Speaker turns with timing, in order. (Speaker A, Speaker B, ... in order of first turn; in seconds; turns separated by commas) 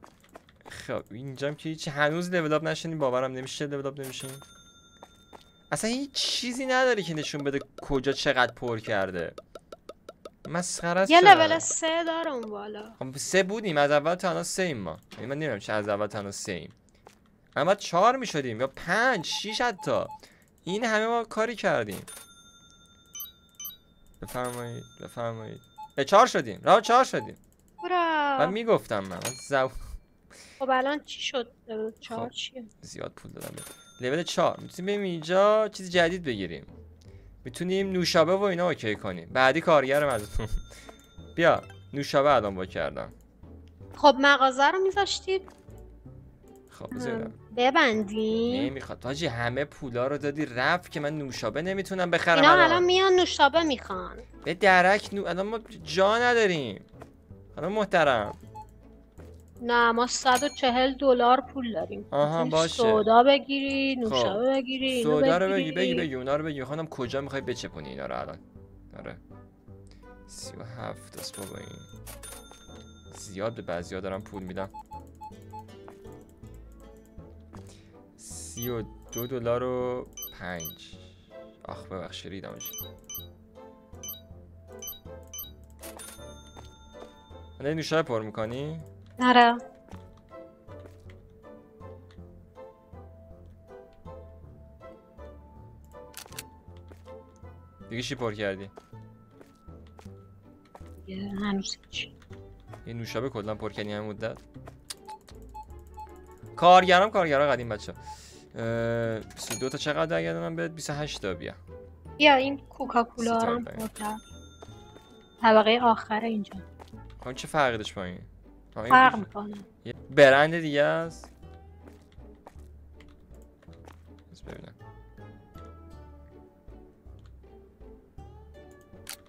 Speaker A: 0.7-4.4, Speaker A: 5.7-9.3, Speaker A: 10.4-11.7, Speaker B: 11.1-13.0, Speaker A: 13.0-16.7, Speaker A: 17.5-20.1, Speaker A: 20.6-22.1, Speaker A: 24.2-27.4, Speaker B: 27.8-28.5, Speaker A: 28.4-29.8, Speaker B: 30.6-32.7, Speaker A: 32.8-36.7, Speaker A: 37.4-40.6, Speaker A: 41.4-43.1, Speaker B: 44.0-45.5, Speaker A: 46.7-47.4, Speaker B: 46.9-48.7, Speaker A: 48.5-52.8, Speaker B: 52.3-54.2, Speaker A: 54.4-56.9, Speaker A: 57.5-58.4, Speaker B: 59.6-66.1, Speaker A: 62.1-63.1, Speaker A: 64.0-69.2, Speaker A: 70.3-71.9, Speaker A: 73.1-74.7, Speaker A: 78.2-81.1, Speaker A: 81.6-82.8, Speaker A: 87.6-88.8, Speaker B: 89.2-89.6, Speaker A: 97.9-98.7, Speaker B: 101.0-102.1, Speaker A: 102.8-104.4, Speaker A: 106.5-108.0, Speaker A: 108.5-111.6, Speaker B: 112.2-114.2, Speaker A: 113.2-113.8, Speaker B: 115.4-116.6, Speaker A: 117.2-119.3, Speaker B: 118.9-119.7, Speaker A: 119.8-121.3, Speaker A: 124.3-124.8